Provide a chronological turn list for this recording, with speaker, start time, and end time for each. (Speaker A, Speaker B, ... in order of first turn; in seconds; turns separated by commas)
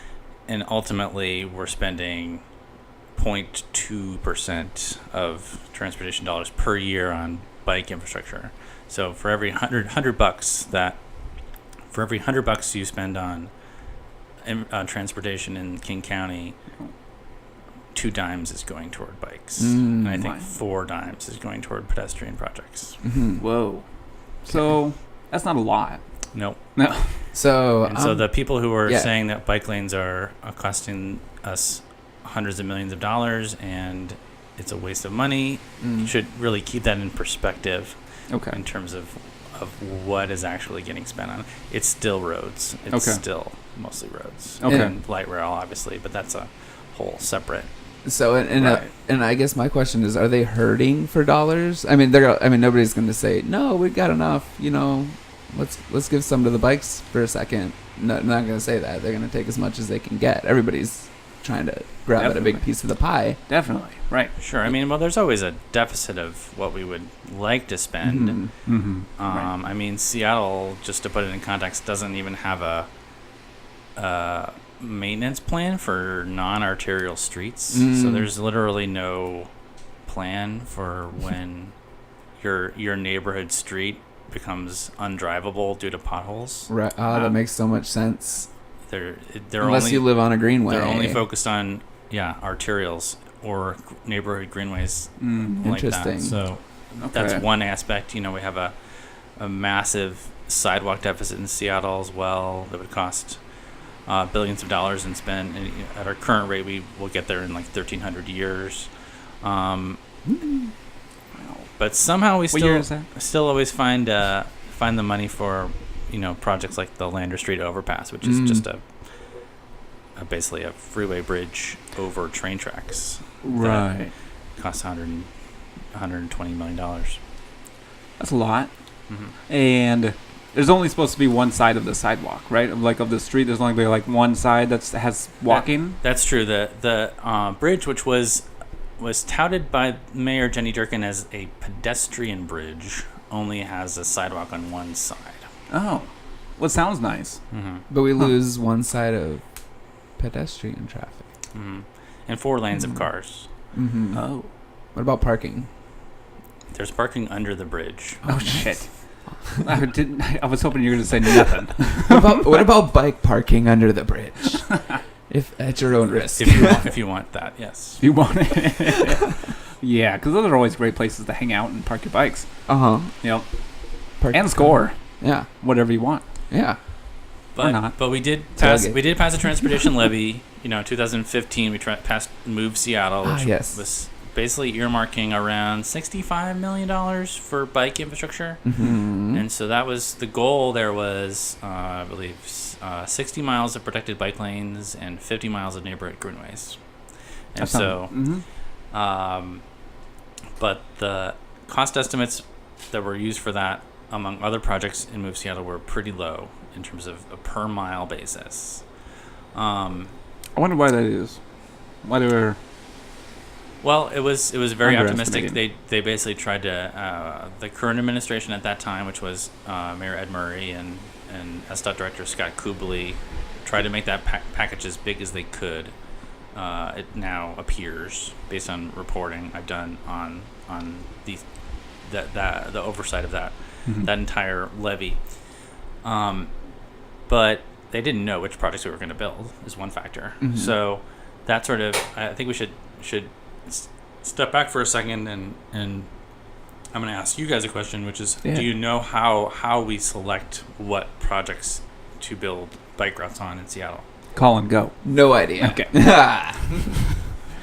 Speaker A: 0.5-2.4, Speaker A: 3.1-11.0, Speaker A: 11.9-13.5, Speaker A: 14.4-16.6, Speaker A: 17.9-23.0, Speaker B: 19.6-20.3, Speaker C: 20.2-20.5, Speaker B: 23.0-23.4, Speaker C: 23.4-23.8, Speaker C: 24.4-26.0, Speaker A: 26.3-26.6, Speaker C: 26.7-27.1, Speaker B: 27.3-29.1, Speaker A: 27.8-38.0, Speaker B: 35.8-36.1, Speaker C: 38.3-38.6, Speaker A: 38.5-47.7, Speaker C: 42.9-43.2, Speaker C: 44.6-44.9, Speaker B: 44.6-44.9, Speaker B: 48.0-63.4, Speaker C: 48.5-48.9, Speaker C: 62.2-62.6, Speaker C: 63.5-64.3, Speaker A: 64.4-68.4, Speaker B: 68.0-68.5, Speaker C: 68.7-69.5, Speaker A: 69.2-72.9, Speaker A: 74.0-79.5, Speaker B: 77.7-78.3, Speaker A: 80.0-81.7, Speaker A: 82.4-86.7, Speaker B: 86.7-88.4, Speaker A: 88.9-90.1, Speaker B: 89.6-91.2, Speaker A: 90.6-98.7, Speaker C: 95.2-95.6, Speaker B: 95.6-96.4, Speaker C: 97.0-97.4, Speaker A: 99.3-103.4, Speaker A: 104.1-108.9, Speaker A: 109.4-110.0, Speaker B: 110.2-110.7, Speaker C: 111.3-111.7, Speaker A: 111.8-118.8, Speaker C: 112.5-113.1, Speaker B: 118.2-118.6, Speaker A: 120.2-124.0, Speaker C: 123.4-124.1, Speaker A: 124.5-125.3, Speaker A: 125.9-127.2, Speaker C: 128.2-128.7, Speaker A: 129.1-129.3, Speaker C: 129.5-136.0, Speaker A: 135.5-138.4, Speaker A: 139.0-145.4, Speaker C: 145.7-147.4, Speaker A: 147.5-147.8, Speaker B: 147.9-149.4, Speaker B: 150.2-151.2, Speaker A: 151.5-153.5, Speaker B: 153.7-154.2, Speaker C: 154.1-154.5, Speaker B: 154.9-155.7, Speaker A: 156.7-158.2, Speaker C: 158.2-158.9, Speaker B: 158.3-158.5, Speaker C: 159.5-162.6, Speaker B: 162.0-166.8, Speaker A: 166.3-168.0, Speaker C: 168.0-172.5, Speaker B: 172.7-173.1, Speaker C: 173.2-173.5, Speaker B: 174.2-175.5, Speaker C: 174.2-175.0, Speaker C: 175.6-176.2, Speaker B: 176.5-176.8, Speaker A: 177.5-188.8, Speaker C: 177.6-178.0, Speaker B: 178.6-179.5, Speaker B: 183.2-183.8, Speaker B: 188.6-189.4, Speaker A: 189.3-196.8, Speaker A: 197.5-198.1, Speaker C: 197.6-198.4, Speaker A: 198.9-199.6, Speaker A: 200.6-208.8, Speaker A: 209.5-210.1, Speaker C: 210.6-211.4, Speaker C: 212.0-212.6, Speaker A: 213.8-225.9, Speaker C: 214.8-215.6, Speaker A: 226.5-231.4, Speaker A: 232.0-235.2, Speaker A: 236.0-236.5, Speaker A: 237.3-246.1, Speaker B: 240.4-240.7, Speaker A: 246.9-254.0, Speaker C: 248.4-248.7, Speaker C: 254.3-255.0, Speaker B: 255.0-256.9, Speaker C: 255.6-256.1